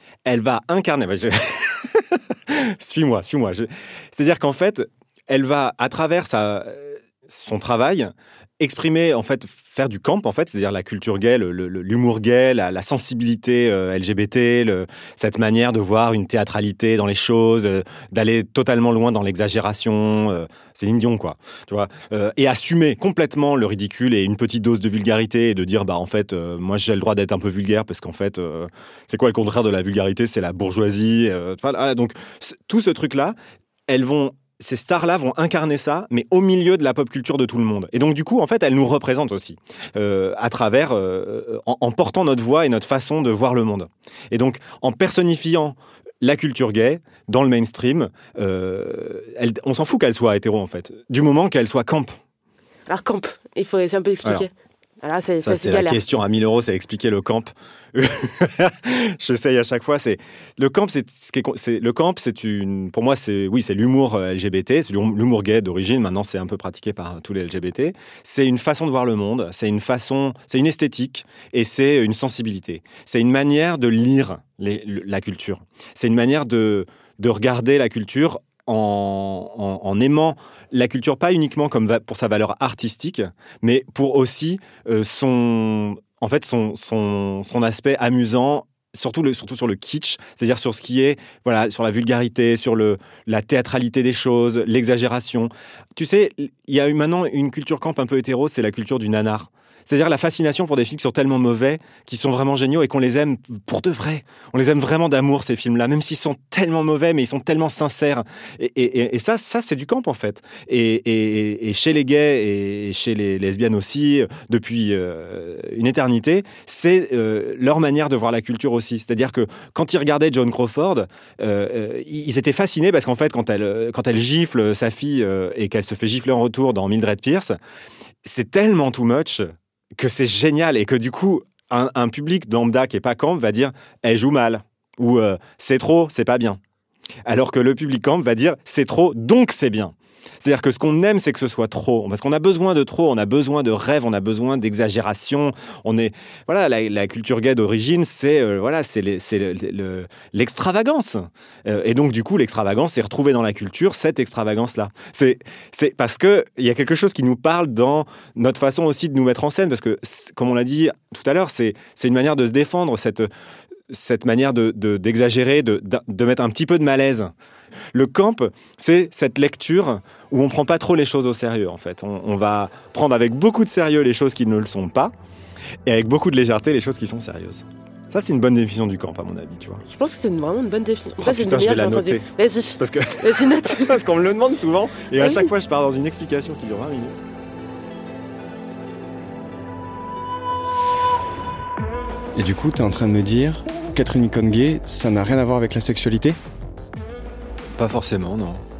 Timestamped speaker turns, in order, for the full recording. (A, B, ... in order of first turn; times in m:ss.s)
0:00.2-0:33.4 A
0:33.9-0:52.2 A
0:52.9-0:54.5 B
0:55.0-0:56.0 B
0:55.4-2:07.6 A
2:08.2-2:16.6 A
2:17.3-2:43.3 A
2:43.9-2:47.3 A
2:47.9-2:55.1 A
2:55.9-2:59.8 A
2:59.9-3:04.0 B
3:01.2-3:07.2 A
3:05.2-3:05.5 B
3:12.4-3:16.4 C
3:17.8-3:18.6 A